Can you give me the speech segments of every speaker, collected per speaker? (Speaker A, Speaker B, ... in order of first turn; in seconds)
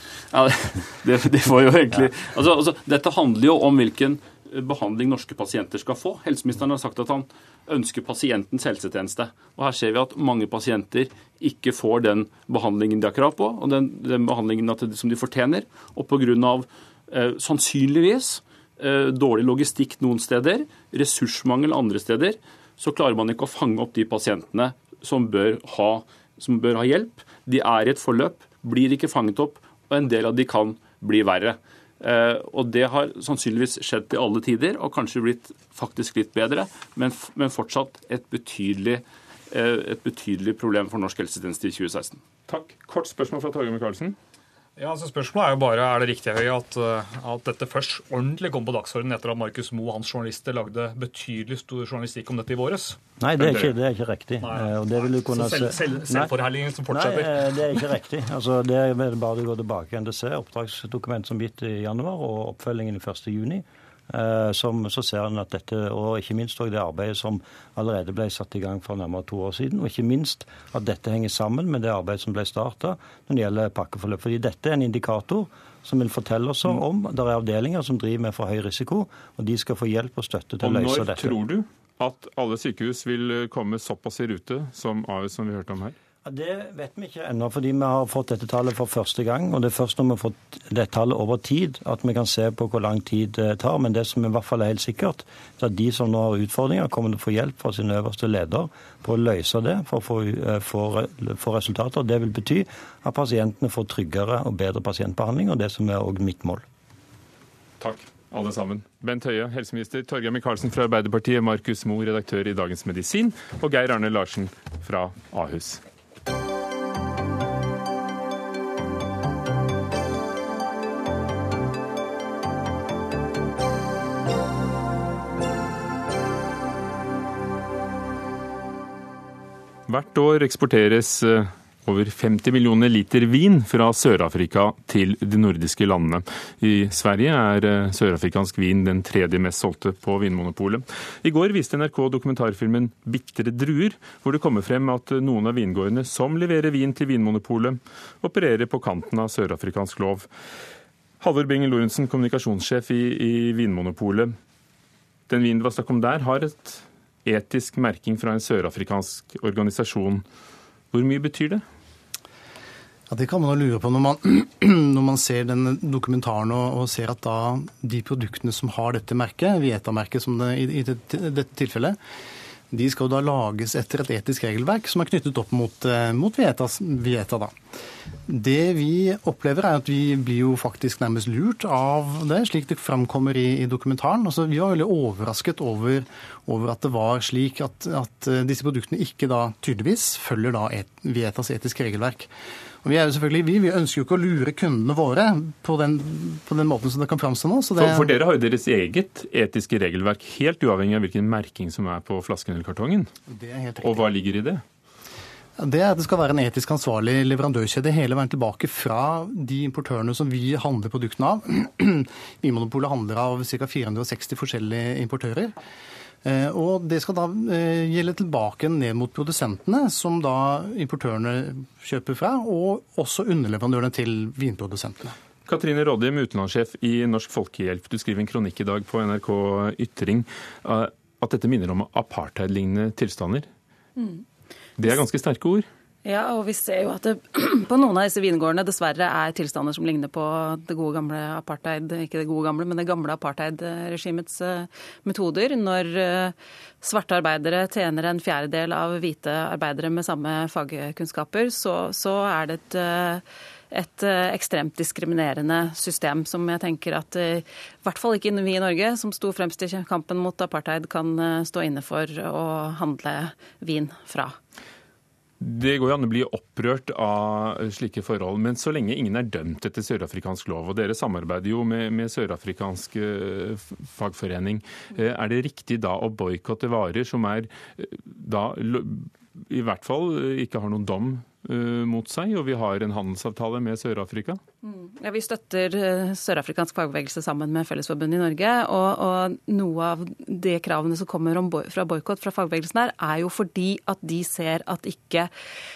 Speaker A: 0.3-42.2
Speaker B: 42.5-44.1, 80.6-85.9, 107.8-115.8, 129.9-150.3, 151.2-154.3, 155.3-160.2, 160.9-161.6, 197.8-203.1, 203.8-204.6, 225.4-233.5, 234.8-235.7, 265.4-284.4
Speaker C: 44.8-53.7, 54.4-57.9
Speaker D: 53.2-56.3, 56.9-81.4, 86.2-106.6
Speaker E: 163.1-172.0, 172.7-177.6, 178.3-192.3, 192.8-198.1, 203.3-204.0, 205.6-215.5, 216.2-225.1
Speaker F: 234.0-234.2, 236.0-264.4, 284.6-295.3